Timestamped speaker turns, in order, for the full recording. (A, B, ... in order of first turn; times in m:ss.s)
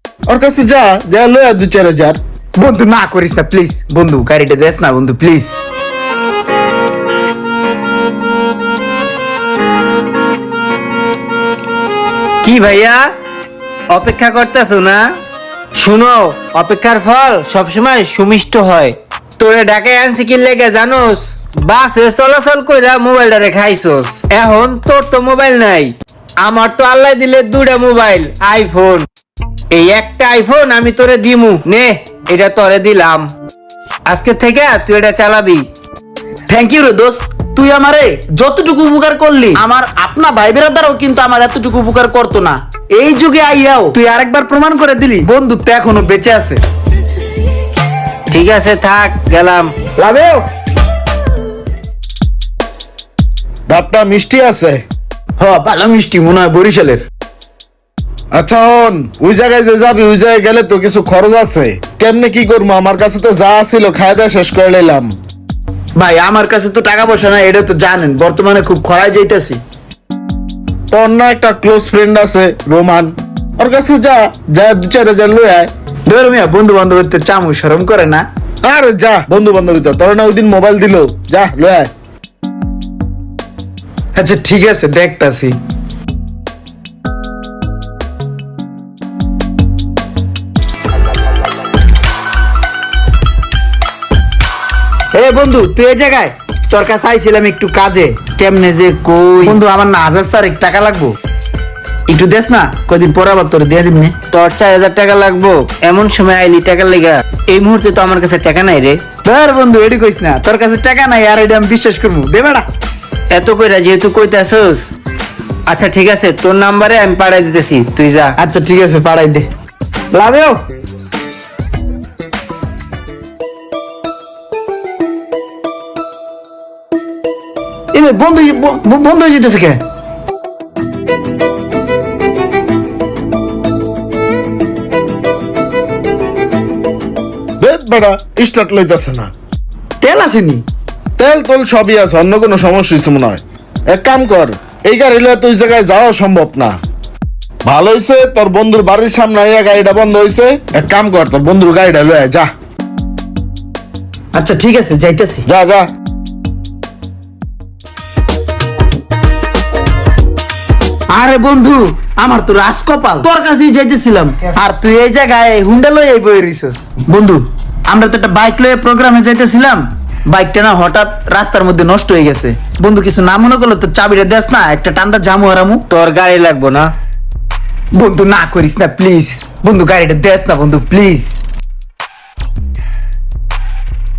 0:00.3-0:02.2 A
0:02.6-0:05.6 B
0:12.4-0:13.0 C
0:13.9-0:15.0 C
0:15.8-0:29.0 C
0:29.7-0:33.3 C
0:34.1-0:35.6 C
0:36.5-0:46.6 B
0:48.3-0:49.7 C
0:50.0-0:50.4 B
0:53.7-0:54.8 A
0:55.4-0:57.0 B
0:58.3-1:05.1 A
1:06.0-1:09.6 B
1:10.9-1:15.7 A
1:16.1-1:18.2 B
1:18.6-1:21.9 A
1:24.1-1:25.6 B
1:35.1-1:41.1 B
1:42.1-1:44.2 B
1:44.3-1:49.0 C
1:49.2-1:52.6 B
1:53.3-1:54.9 C
1:55.7-1:58.3 C
1:58.4-1:59.5 B
2:00.1-2:00.6 B
2:07.9-2:09.8 B
2:17.6-2:19.3 A
2:20.0-2:20.6 B
2:21.2-2:26.8 A
2:27.6-2:32.5 A
2:34.3-2:35.4 B
2:35.4-2:35.9 A
2:41.1-2:55.8 B
2:55.9-2:56.9 C
2:57.9-3:01.4 B